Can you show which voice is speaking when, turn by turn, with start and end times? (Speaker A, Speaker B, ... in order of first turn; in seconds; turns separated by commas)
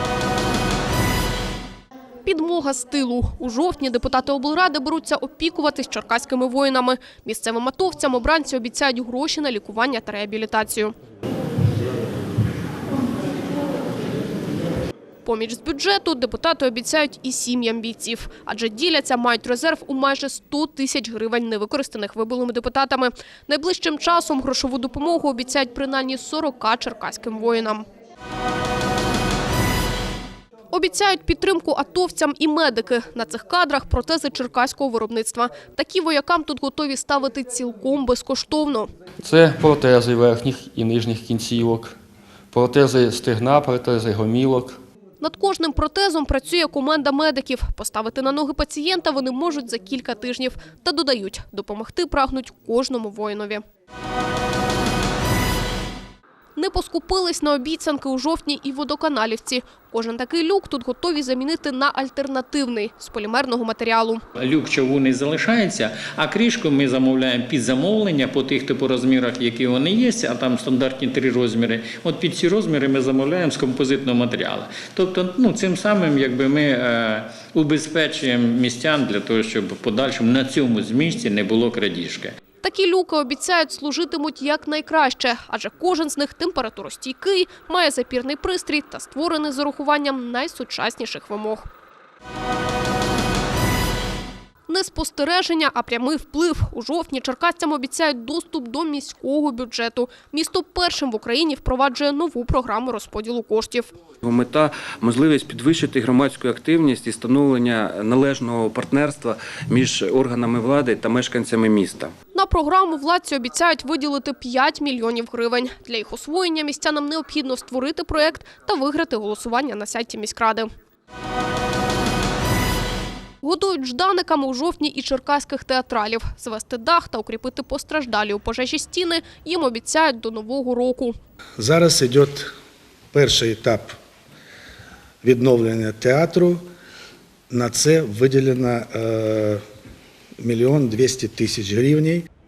Speaker A: 2.2-10.9, Speaker A: 15.2-27.9, Speaker A: 30.7-38.9, Speaker B: 39.2-42.0, Speaker B: 42.5-44.8, Speaker A: 45.2-53.6, Speaker A: 56.6-64.2, Speaker C: 64.3-82.3, Speaker A: 82.6-91.7, Speaker A: 94.7-103.9, Speaker D: 104.2-112.2, Speaker A: 112.3-120.7, Speaker A: 123.4-131.2, Speaker E: 131.6-132.5, Speaker E: 133.1-133.9, Speaker E: 135.2-136.6, Speaker E: 137.5-139.6, Speaker E: 140.4-142.2